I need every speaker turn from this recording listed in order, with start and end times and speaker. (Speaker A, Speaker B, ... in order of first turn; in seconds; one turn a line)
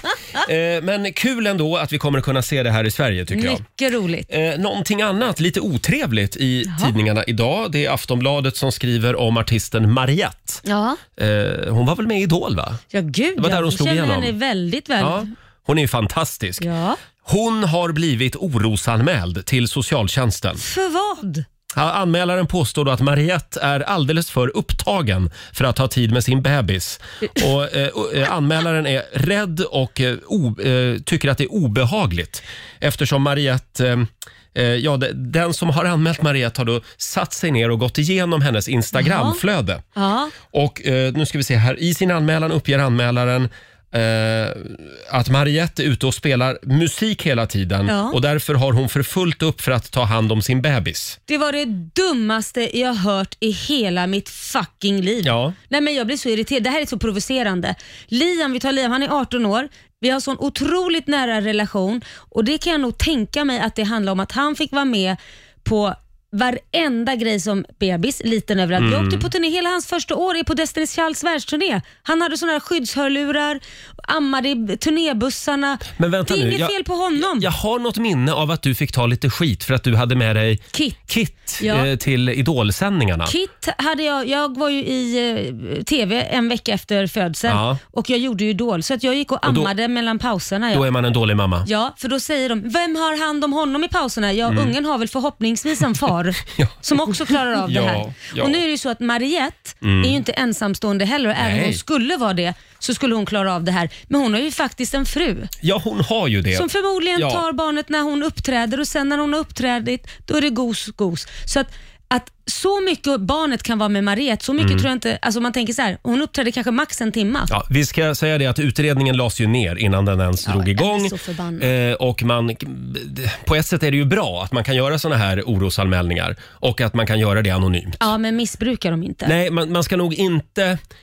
Speaker A: 0.4-3.6
Speaker B: 3.3-4.3
Speaker A: 4.3-10.6
Speaker B: 6.7-6.9
Speaker B: 10.6-11.0
Speaker A: 11.2-12.8
Speaker B: 12.9-15.3
Speaker A: 13.4-14.3
Speaker A: 15.0-16.7
Speaker B: 16.6-17.0
Speaker A: 17.2-20.6
Speaker B: 20.6-21.5
Speaker A: 21.7-39.8
Speaker B: 39.0-39.4
Speaker B: 40.0-40.3
Speaker A: 40.5-51.2
Speaker B: 47.9-48.2
Speaker B: 51.3-77.5
Speaker A: 55.2-55.5
Speaker A: 68.8-69.3
Speaker A: 76.0-83.3
Speaker B: 80.7-81.1
Speaker B: 81.6-81.9
Speaker B: 83.2-90.9
Speaker A: 87.5-87.8
Speaker A: 89.5-89.7
Speaker A: 90.7-91.7
Speaker B: 91.7-105.5
Speaker A: 94.5-94.7
Speaker A: 96.5-98.6
Speaker A: 99.8-100.2
Speaker A: 101.4-101.8
Speaker A: 105.6-107.4
Speaker B: 106.5-117.5
Speaker A: 114.6-114.9
Speaker A: 117.5-128.0
Speaker B: 120.5-121.7
Speaker B: 128.0-129.3
Speaker A: 129.2-130.8